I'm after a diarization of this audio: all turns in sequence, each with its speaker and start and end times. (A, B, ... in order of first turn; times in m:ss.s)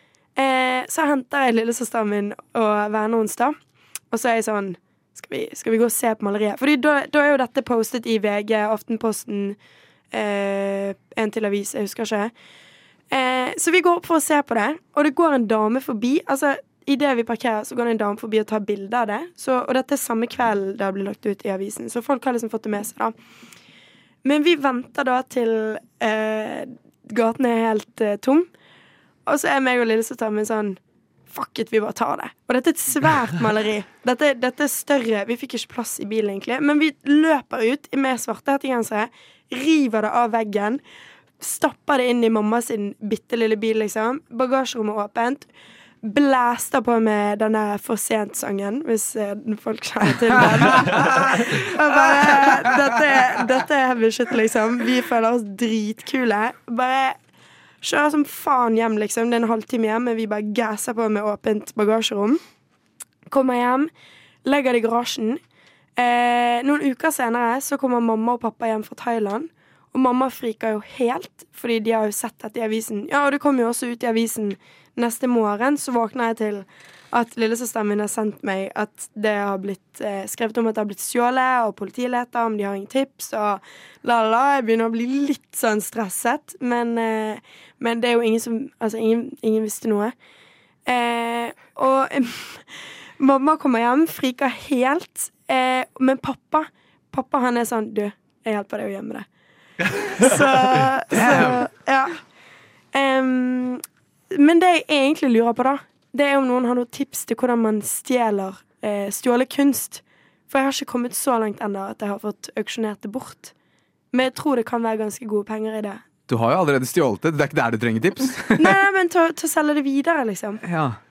0:00.4-0:03.6 A
0:04.1-0:09.6 A
0:10.1-0:12.3 A
0:13.1-0:23.1 A
0:24.2-0:28.5 A
0:29.3-0:30.8 A
0:31.3-0:40.8 A
0:41.4-0:45.5 A
0:46.0-0:57.2 A
0:50.8-0:53.0 B
0:57.8-1:02.4 A
1:03.3-1:03.9 A
1:04.4-1:05.4 A
1:06.0-1:30.1 A
1:30.9-1:32.6 A
1:33.2-1:39.3 A
1:40.0-1:42.2 A
1:41.1-1:41.7 B
1:42.9-1:53.5 A
1:54.1-1:56.0 A
1:56.3-1:58.8 B
1:58.6-2:00.6 A
2:00.6-2:01.0 B